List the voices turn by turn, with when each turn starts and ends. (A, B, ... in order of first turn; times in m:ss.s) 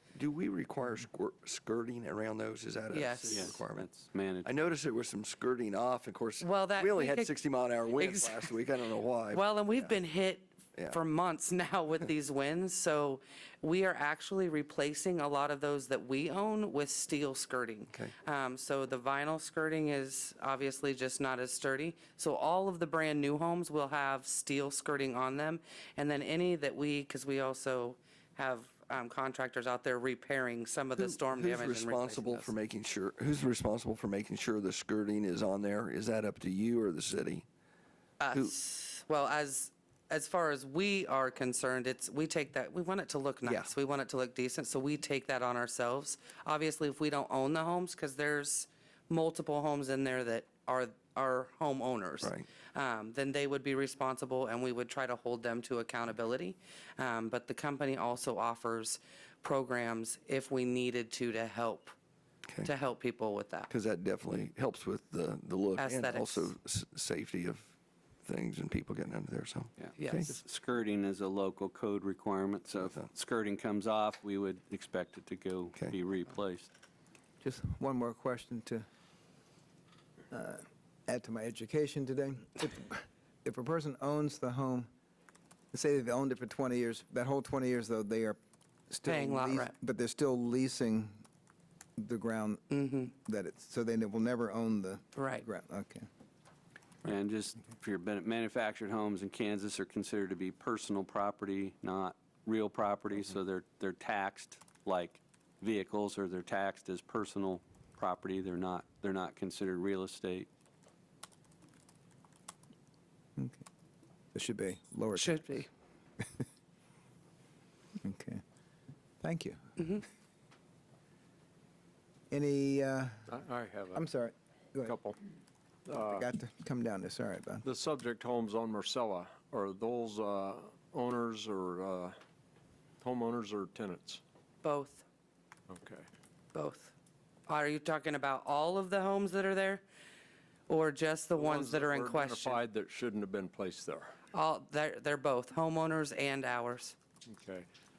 0:00.2-0:03.9 A
0:02.9-0:03.6 B
0:03.3-0:04.6 C
0:04.4-0:10.0 A
0:06.4-0:08.6 B
0:09.3-0:32.5 B
0:31.0-0:37.4 A
0:38.2-1:01.9 B
0:43.5-0:43.7 A
1:02.6-1:03.7 B
1:03.7-1:07.7 A
1:05.8-1:06.5 B
1:08.3-1:10.3 A
1:09.8-1:16.7 C
1:10.0-1:10.4 B
1:17.4-1:18.9 D
1:20.3-1:24.9 D
1:25.7-1:28.4 D
1:28.9-1:31.2 D
1:29.0-1:29.7 B
1:32.0-1:32.6 D
1:32.7-1:33.1 B
1:33.2-1:36.1 D
1:35.2-1:35.4 B
1:37.0-1:50.5 C
1:53.4-1:53.6 D
1:54.3-1:55.6 D
1:55.2-1:55.7 B
1:58.0-1:58.4 D
1:59.2-1:59.6 D
1:59.8-2:00.0 B
2:02.3-2:03.3 D
2:03.3-2:04.0 E
2:03.9-2:05.0 D
2:04.8-2:05.2 E
2:05.9-2:06.2 E
2:05.9-2:07.6 D
2:07.6-2:12.2 E
2:13.0-2:14.2 E
2:14.6-2:15.0 B
2:15.7-2:16.1 E
2:16.5-2:16.9 B
2:17.5-2:19.8 B
2:20.7-2:22.6 B
2:21.4-2:24.2 E
2:24.3-2:27.0 B
2:27.3-2:27.7 E